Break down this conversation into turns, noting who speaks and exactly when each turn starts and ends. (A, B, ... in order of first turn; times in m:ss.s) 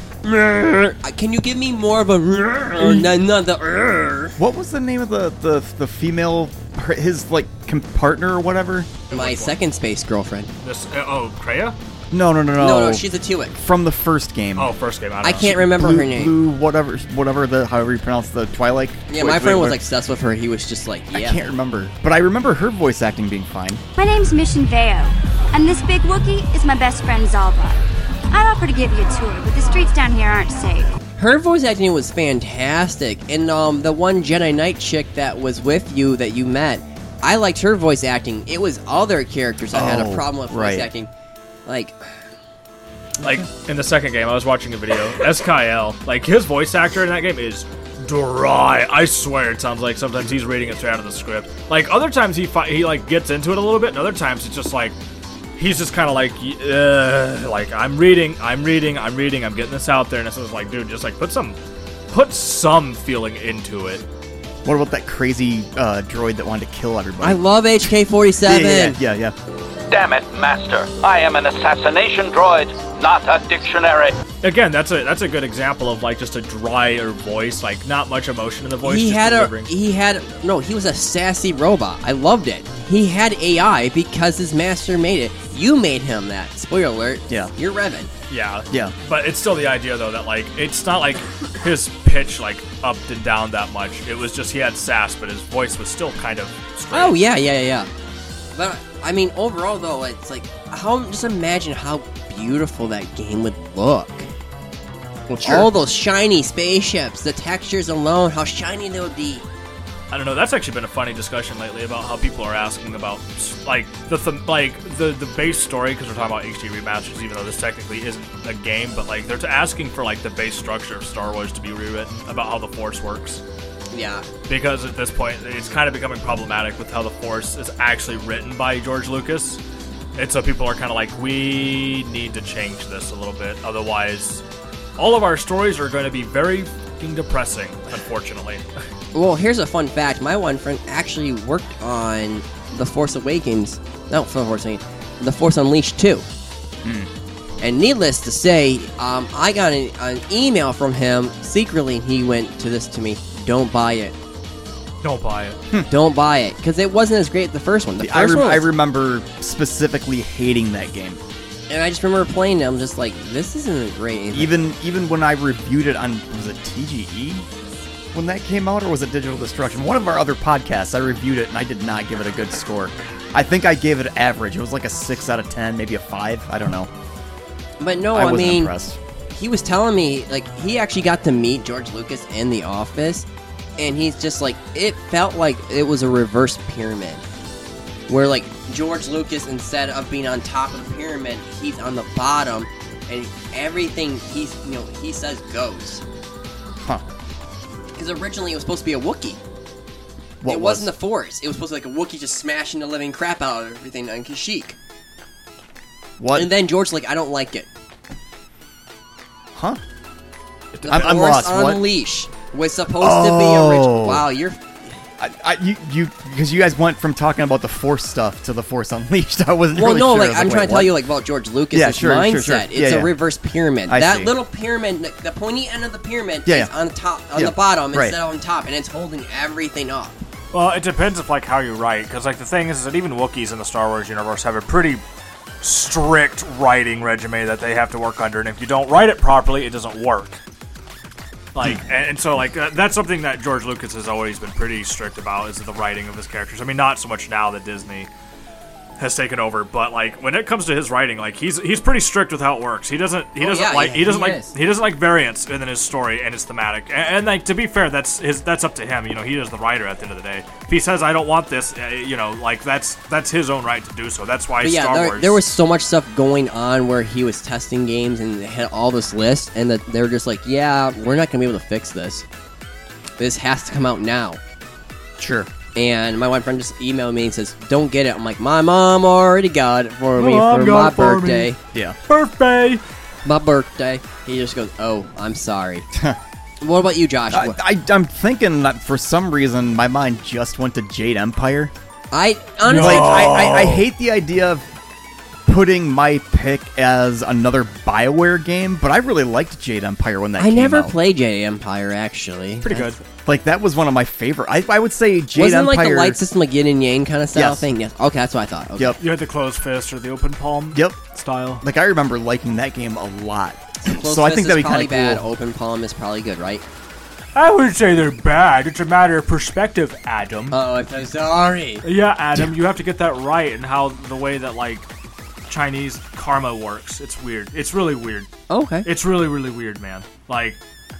0:00.2-0:04.4 A
0:02.8-0:03.1 B
0:04.4-0:08.9 C
0:09.1-0:09.6 B
0:09.1-0:10.5 A
0:10.6-0:11.8 B
0:12.1-0:19.8 C
0:12.6-0:13.6 A
0:14.6-0:15.6 B
0:15.2-0:16.3 A
0:19.1-0:21.4 A
0:21.1-0:23.8 C
0:24.0-0:30.9 D
0:31.2-0:41.1 A
0:39.7-0:40.9 C
0:41.7-0:42.0 A
0:43.2-0:55.0 B
0:55.6-1:01.6 B
1:02.1-1:04.0 B
1:04.6-1:07.4 C
1:07.2-1:09.0 A
1:08.4-1:09.4 C
1:09.9-1:14.1 E
1:14.4-1:19.7 B
1:18.8-1:28.1 A
1:28.3-1:37.2 B
1:28.7-1:29.0 C
1:36.9-1:37.9 A
1:38.5-1:44.3 A
1:45.3-1:49.4 A
1:50.1-2:03.4 B
2:03.9-2:04.3 A
2:04.5-2:09.6 B
2:10.2-2:14.4 B
2:15.0-2:18.6 B
2:19.1-2:26.3 A
2:26.8-2:27.1 C
2:27.6-2:34.2 A
2:35.0-2:35.6 B
2:35.9-2:38.7 A
2:38.0-2:41.2 C
2:41.7-2:44.5 A
2:44.3-2:47.4 C
2:48.1-2:56.9 C
2:57.8-2:58.7 A
2:58.1-2:59.0 C
2:59.3-3:03.3 A
3:03.8-3:07.2 A
3:08.1-3:16.0 A
3:18.0-3:19.4 A
3:20.4-3:20.9 C
3:20.5-3:24.8 A
3:26.2-3:26.5 C
3:26.3-3:27.7 A
3:29.6-3:29.8 C
3:30.8-3:34.6 A
3:30.9-3:31.9 C
3:33.0-3:34.3 C
3:35.2-3:41.0 C
3:39.8-3:50.2 A
3:41.7-3:43.1 C
3:43.9-3:44.3 C
3:46.5-3:46.7 C
3:47.4-3:48.2 C
3:50.5-3:55.0 B
3:55.6-4:00.4 B
4:01.5-4:08.1 B
4:09.0-4:25.4 B
4:13.4-4:14.5 A
4:24.6-4:32.2 A
4:33.2-4:34.4 A
4:35.2-4:35.5 C
4:35.8-4:41.6 A
4:40.2-4:41.5 B
4:42.1-4:42.8 B
4:43.2-4:45.9 A
4:45.9-4:46.2 C
4:46.6-4:47.6 A
4:47.3-4:51.7 C
4:52.1-4:53.3 A
4:52.6-4:53.8 B
4:52.8-4:54.7 C
4:55.5-5:01.0 C
5:00.4-5:02.7 A
5:02.6-5:03.0 B
5:02.7-5:06.2 C
5:05.4-5:09.0 A
5:07.3-5:07.6 C
5:09.0-5:11.6 B
5:10.7-5:11.0 C
5:11.6-5:15.2 C
5:13.8-5:16.6 A
5:17.4-5:20.6 B
5:20.5-5:21.8 A
5:21.8-5:24.9 B
5:25.5-5:28.3 B
5:28.5-5:28.9 A
5:28.8-5:30.6 B